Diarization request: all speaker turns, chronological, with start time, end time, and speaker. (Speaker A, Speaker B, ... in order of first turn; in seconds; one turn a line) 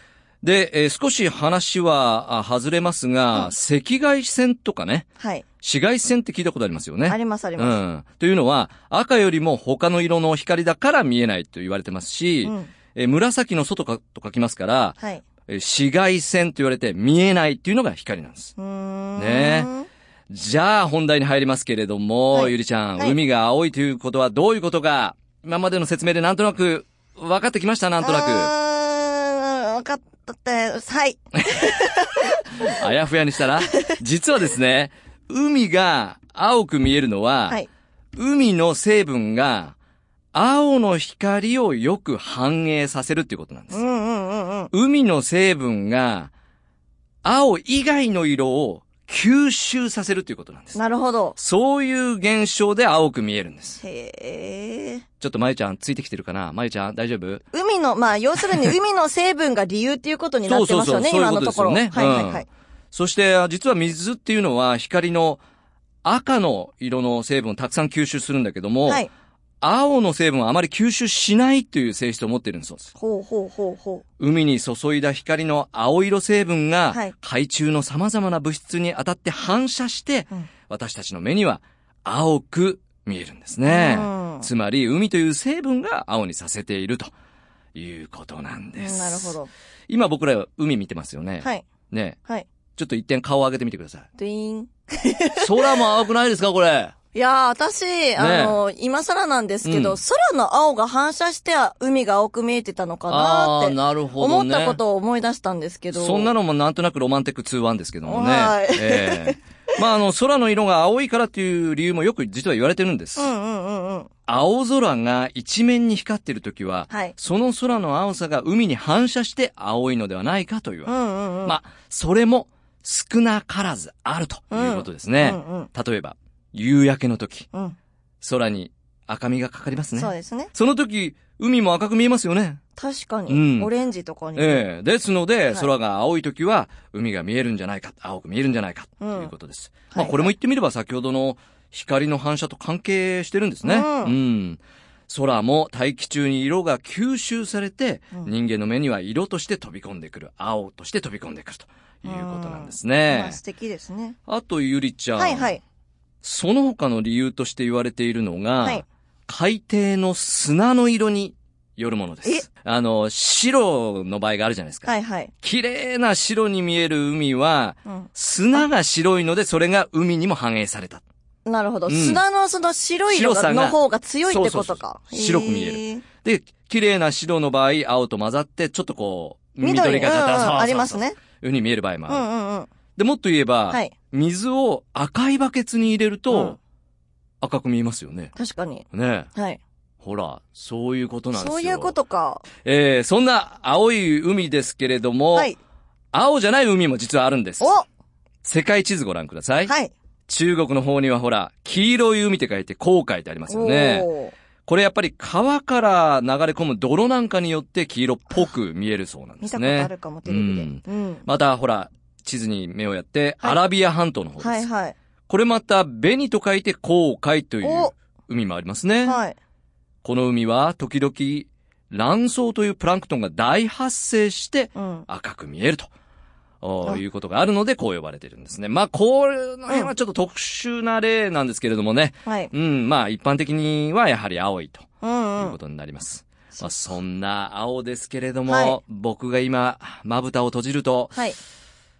Speaker A: 0.4-5.1
Speaker B: 5.2-5.4
Speaker A: 5.6-14.9
Speaker B: 7.0-7.8
Speaker B: 12.4-12.7
Speaker B: 15.0-15.2
Speaker A: 15.5-18.5
Speaker B: 18.6-19.9
Speaker A: 19.2-19.7
Speaker A: 20.3-28.5
Speaker B: 22.3-23.2
Speaker B: 28.0-32.4
Speaker A: 32.6-37.6
Speaker A: 38.1-39.8
Speaker A: 40.3-43.8
Speaker B: 43.7-44.7
Speaker A: 44.7-46.3
Speaker A: 47.2-50.8
Speaker B: 50.7-51.4
Speaker A: 51.4-53.8
Speaker B: 53.8-55.0
Speaker A: 55.2-57.4
Speaker B: 57.5-62.5
Speaker A: 60.4-65.4
Speaker A: 66.0-69.1
Speaker A: 69.6-72.9
Speaker B: 72.9-74.0
Speaker A: 74.2-87.1
Speaker B: 83.7-84.5
Speaker A: 87.7-89.4
Speaker B: 88.8-89.5
Speaker A: 89.9-92.2
Speaker B: 91.4-91.7
Speaker A: 92.8-94.1
Speaker B: 94.2-95.5
Speaker A: 95.4-96.9
Speaker B: 97.1-106.3
Speaker A: 98.2-98.6
Speaker A: 99.6-100.0
Speaker A: 103.1-104.8
Speaker A: 105.9-113.3
Speaker B: 108.0-109.4
Speaker B: 113.2-114.1
Speaker A: 114.3-120.9
Speaker B: 116.9-117.1
Speaker B: 120.8-121.6
Speaker A: 121.4-127.5
Speaker B: 124.5-125.7
Speaker A: 128.2-132.6
Speaker B: 129.9-130.5
Speaker B: 132.8-134.7
Speaker A: 133.3-133.7
Speaker A: 134.3-153.4
Speaker B: 139.0-139.3
Speaker B: 139.9-140.3
Speaker B: 143.6-144.1
Speaker B: 152.0-154.2
Speaker A: 154.3-155.5
Speaker B: 155.2-155.6
Speaker A: 156.2-171.0
Speaker B: 164.8-165.3
Speaker B: 167.9-168.6
Speaker B: 171.4-176.0
Speaker A: 171.8-172.2
Speaker A: 173.1-173.8
Speaker A: 174.3-182.3
Speaker B: 179.6-181.2
Speaker B: 182.1-182.7
Speaker A: 182.9-186.6
Speaker B: 186.3-186.6
Speaker A: 187.4-188.3
Speaker B: 188.3-189.6
Speaker A: 188.9-189.3
Speaker A: 190.0-191.9
Speaker B: 191.3-192.4
Speaker A: 192.6-195.5
Speaker A: 196.1-197.8
Speaker B: 197.6-197.8
Speaker A: 198.4-199.7
Speaker B: 199.7-199.9
Speaker A: 200.3-204.1
Speaker B: 203.5-204.3
Speaker A: 204.7-214.7
Speaker B: 209.4-211.2
Speaker B: 214.4-214.9
Speaker A: 215.3-219.2
Speaker B: 217.6-217.9
Speaker B: 219.0-219.4
Speaker A: 220.0-225.9
Speaker B: 224.7-225.1
Speaker A: 226.6-241.2
Speaker B: 232.2-232.5
Speaker B: 235.0-235.6
Speaker B: 236.5-236.8
Speaker B: 238.5-238.8